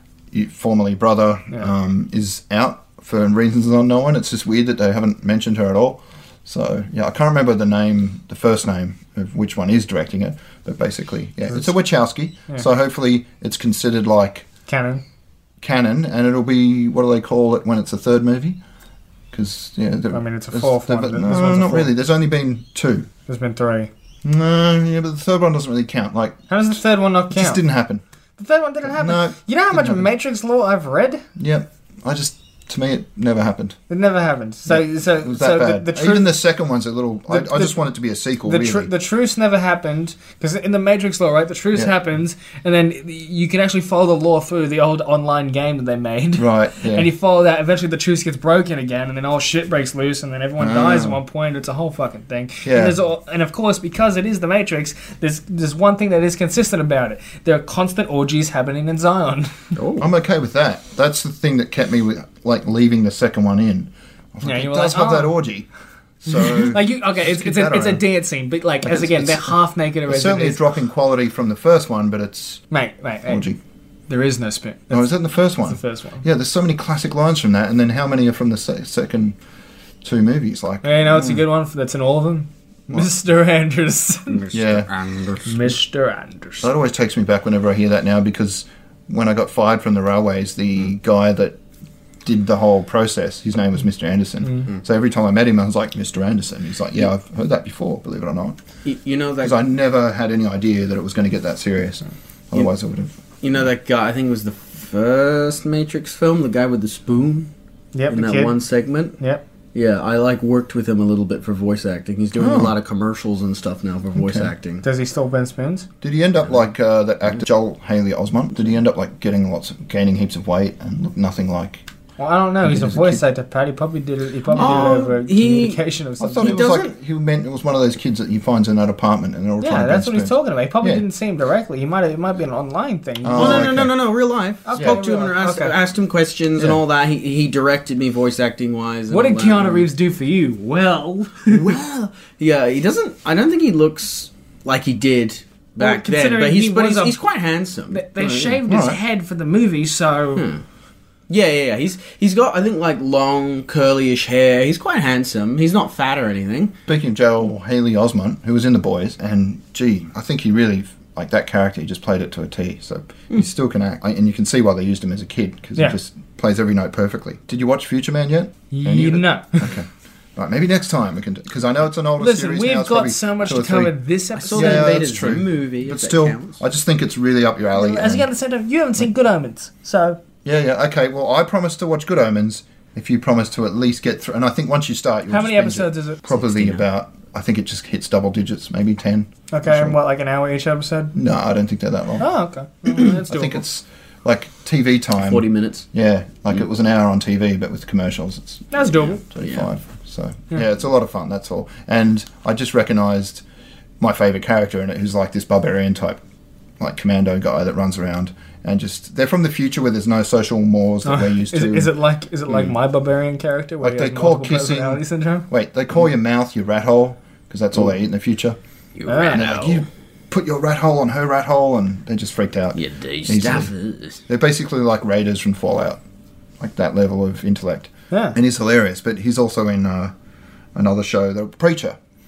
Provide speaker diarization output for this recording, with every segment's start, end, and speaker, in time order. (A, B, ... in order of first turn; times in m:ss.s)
0:00.3-0:14.5 A
0:14.7-0:15.0 B
0:15.6-0:18.6 A
0:19.3-0:23.1 A
0:20.1-0:21.9 B
0:23.3-0:23.9 B
0:24.2-0:26.4 A
0:26.5-0:27.6 B
0:27.3-0:28.0 A
0:28.4-0:31.2 B
0:28.8-0:30.1 A
0:31.4-0:33.8 A
0:33.9-0:36.3 B
0:34.7-0:38.9 A
0:37.3-0:37.8 B
0:38.4-0:59.7 B
0:46.4-0:47.1 A
0:50.6-0:51.2 A
0:52.6-0:53.0 A
0:59.8-1:00.1 C
1:00.0-1:05.7 A
1:04.4-1:05.4 B
1:06.2-1:08.0 A
1:06.4-1:10.6 B
1:08.8-1:09.5 A
1:10.1-1:12.6 A
1:12.7-1:13.5 B
1:13.2-1:13.6 A
1:14.1-1:15.1 B
1:14.9-1:19.4 A
1:15.6-1:16.2 B
1:20.0-1:21.4 A
1:20.8-1:24.5 B
1:24.3-1:25.7 C
1:24.5-1:24.9 A
1:25.4-1:26.7 B
1:26.6-1:31.6 A
1:32.2-1:38.6 A
1:38.8-1:39.6 C
1:39.4-1:43.2 A
1:43.4-1:47.5 C
1:47.9-1:48.6 B
1:48.1-1:49.2 C
1:49.7-1:54.8 C
1:52.4-1:52.7 A
1:54.2-1:54.5 A
1:54.8-1:55.9 B
1:56.0-2:01.8 A
2:02.2-2:06.7 B
2:02.6-2:03.2 A
2:04.5-2:05.8 C
2:04.5-2:04.8 A
2:06.2-2:11.0 A
2:06.4-2:06.9 C
2:09.6-2:13.7 B
2:13.2-2:13.9 A
2:13.3-2:19.9 C
2:14.7-2:15.8 B
2:14.7-2:15.0 A
2:19.1-2:21.7 B
2:21.5-2:28.6 C
2:25.8-2:27.2 B
2:27.9-2:30.5 B
2:28.6-2:29.0 A
2:30.3-2:30.6 C
2:31.3-2:36.7 C
2:36.9-2:53.9 A
2:48.7-2:49.8 B
2:52.2-2:55.0 B
2:54.4-2:56.6 C
2:54.5-2:58.3 A
2:57.7-3:00.2 B
3:00.4-3:10.0 A
3:05.3-3:06.2 B
3:06.4-3:06.8 C
3:09.5-3:11.1 B
3:11.1-3:12.3 A
3:12.2-3:13.6 B
3:13.3-3:23.4 A
3:15.2-3:15.8 C
3:18.7-3:19.2 B
3:24.0-3:26.2 A
3:26.8-3:31.9 A
3:31.0-3:35.5 B
3:33.8-3:38.6 A
3:39.0-3:39.8 C
3:39.0-3:39.5 B
3:39.3-3:43.7 A
3:42.7-3:44.2 C
3:44.3-3:46.0 A
3:46.6-3:50.1 A
3:48.1-3:48.4 B
3:50.7-3:52.0 A